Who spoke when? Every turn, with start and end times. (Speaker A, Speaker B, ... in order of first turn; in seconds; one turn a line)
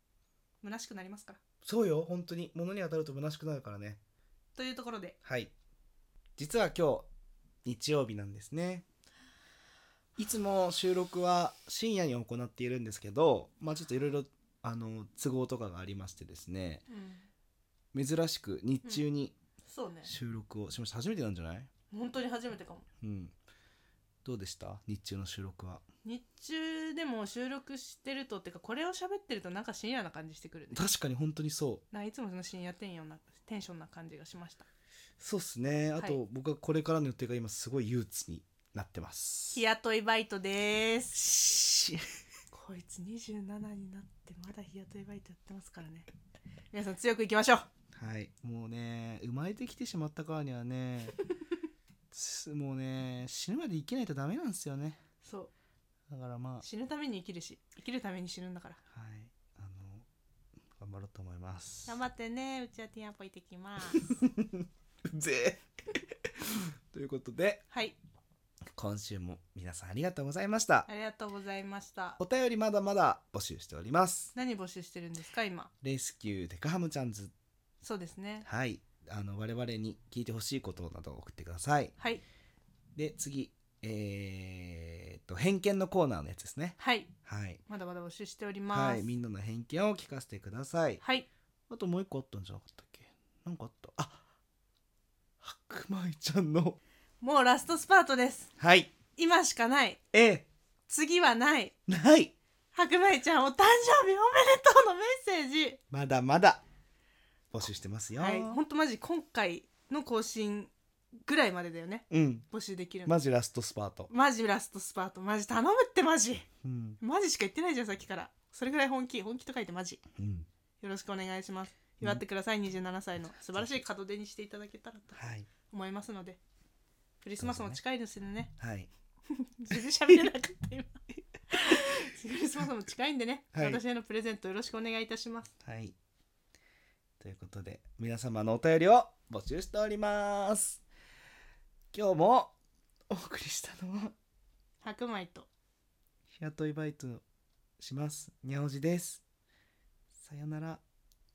Speaker A: 0.6-1.4
Speaker B: 1.6-4.0
Speaker A: 4.5-5.2
Speaker B: 5.2-5.5
Speaker B: 6.4-7.1
Speaker B: 7.6-8.8
Speaker B: 10.2-16.8
Speaker A: 16.9-17.3
Speaker B: 17.9-19.4
Speaker A: 19.6-20.1
Speaker B: 20.0-21.7
Speaker A: 21.9-22.9
Speaker B: 23.0-23.3
Speaker B: 24.2-25.8
Speaker A: 26.0-30.9
Speaker B: 30.7-31.8
Speaker A: 31.9-34.6
Speaker B: 35.2-39.6
Speaker A: 39.5-41.2
Speaker B: 41.1-42.0
Speaker A: 42.5-46.1
Speaker A: 46.7-47.7
Speaker B: 47.9-51.2
Speaker B: 52.1-55.0
Speaker A: 55.2-55.5
Speaker B: 56.1-56.6
Speaker A: 56.6-58.8
Speaker B: 58.9-60.0
Speaker B: 60.8-62.0
Speaker A: 61.9-64.1
Speaker B: 64.0-67.6
Speaker A: 67.7-68.0
Speaker B: 68.7-70.9
Speaker A: 70.9-72.2
Speaker B: 72.2-74.3
Speaker A: 74.3-75.7
Speaker B: 75.8-77.3
Speaker A: 77.8-78.5
Speaker B: 78.4-81.9
Speaker A: 82.0-82.2
Speaker B: 82.9-87.6
Speaker A: 86.8-87.1
Speaker A: 87.7-89.1
Speaker B: 88.7-91.0
Speaker A: 91.0-91.3
Speaker B: 91.7-94.2
Speaker B: 95.4-96.8
Speaker A: 97.2-98.5
Speaker B: 98.6-98.9
Speaker A: 99.1-100.0
Speaker B: 100.1-100.5
Speaker A: 100.9-101.7
Speaker B: 101.9-102.3
Speaker A: 102.7-105.8
Speaker B: 105.9-106.6
Speaker B: 107.5-108.6
Speaker A: 108.2-110.7
Speaker A: 111.2-113.1
Speaker B: 112.1-112.5
Speaker B: 113.0-114.1
Speaker A: 114.1-116.5
Speaker B: 116.6-117.0
Speaker A: 117.0-120.0
Speaker B: 120.2-120.5
Speaker A: 120.8-126.4
Speaker B: 123.5-123.8
Speaker B: 125.2-125.5
Speaker A: 127.2-128.5
Speaker B: 127.4-127.8
Speaker B: 128.6-128.9
Speaker A: 129.3-135.5
Speaker B: 133.5-133.8
Speaker B: 135.6-135.9
Speaker B: 137.2-140.8
Speaker B: 141.9-142.5
Speaker B: 143.1-144.1
Speaker A: 144.8-145.5
Speaker B: 146.3-147.2
Speaker B: 147.8-149.2
Speaker B: 150.1-150.8